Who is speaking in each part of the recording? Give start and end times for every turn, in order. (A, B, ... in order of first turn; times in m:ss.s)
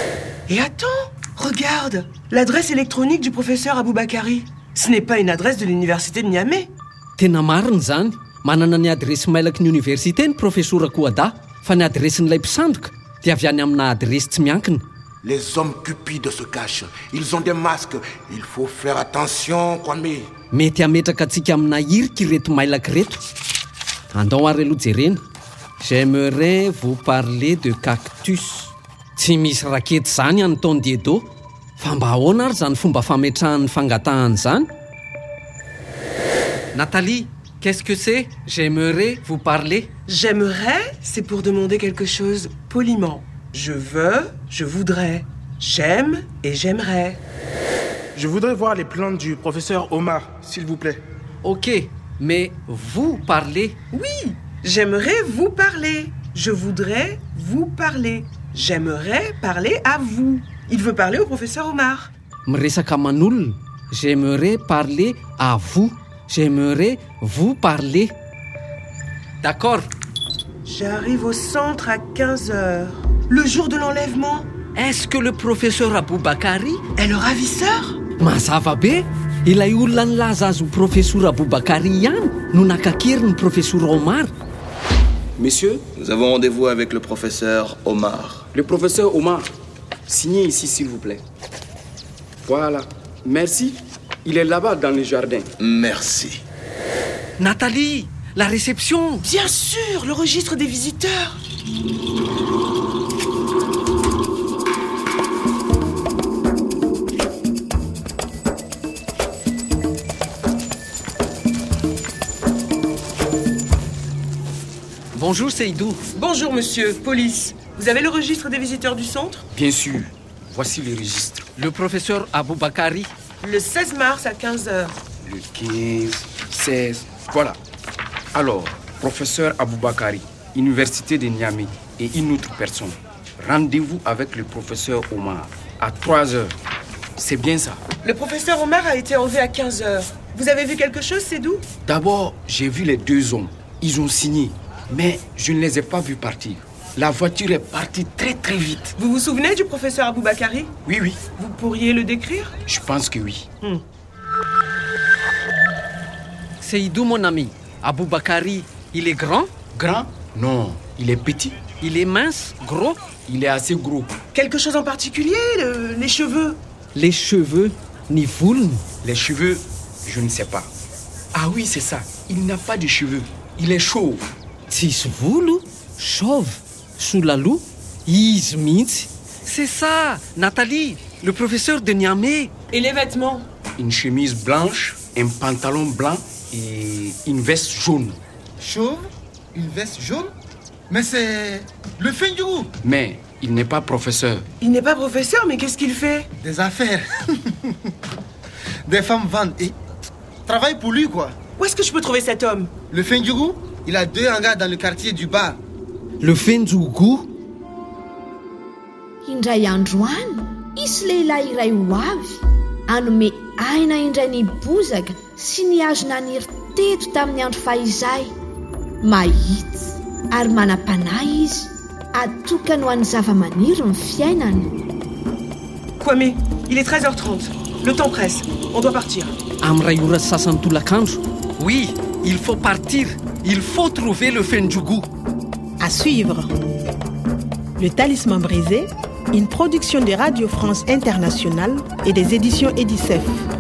0:00.5-0:06.7 A
0:07.2-0:14.8 B
0:15.2-0:20.2 C
0:20.5-0:23.2 B
0:24.1-0:25.2 B
0:25.8-0:34.7 B
0:36.7-0:39.9 B
0:40.1-0:47.2 A
0:48.1-0:51.0 D
0:51.4-0:53.8 B
0:53.9-1:02.1 A
1:02.4-1:08.1 B
1:09.4-1:09.9 B
1:10.6-1:14.5 A
1:14.7-1:16.8 B
1:17.0-1:18.0 A
1:18.2-1:24.3 B
1:25.4-1:25.8 E
1:25.9-1:28.4 F
1:28.5-1:29.5 E
1:30.1-1:31.2 E
1:32.4-1:35.5 E
1:35.6-1:36.4 F
1:37.4-1:39.2 B
1:39.2-1:41.4 A
1:55.1-1:56.0 B
1:56.1-1:59.4 A
1:59.5-2:01.5 E
2:01.6-2:03.1 B
2:03.4-2:04.9 A
2:05.2-2:07.6 E
2:08.3-2:16.5 E
2:17.2-2:17.8 E
2:18.0-2:21.6 A
2:21.8-2:28.9 E
2:29.0-2:30.7 A
2:30.8-2:31.2 E
2:31.4-2:32.5 A
2:32.7-2:33.5 E
2:36.6-2:39.5 B
2:39.7-2:41.6 E
2:41.8-2:43.0 B
2:43.3-2:44.2 E
2:44.3-2:46.6 A
2:46.9-2:48.8 B
2:49.0-2:50.7 E
2:51.3-2:54.3 E
2:54.7-3:02.5 B
3:02.7-3:03.4 A
3:03.8-3:08.2 E
3:08.6-3:10.3 G
3:10.9-3:12.7 G
3:12.8-3:14.5 E
3:14.6-3:16.3 A
3:16.4-3:17.3 G
3:18.8-3:19.8 G
3:20.4-3:21.4 G
3:21.6-3:22.7 A
3:22.9-3:25.6 G
3:26.2-3:27.3 B
3:29.2-3:38.3 H
3:39.0-3:44.7 H
3:46.0-3:49.3 A
3:49.6-3:55.1 B
3:55.8-3:56.5 I
3:57.8-4:03.5 I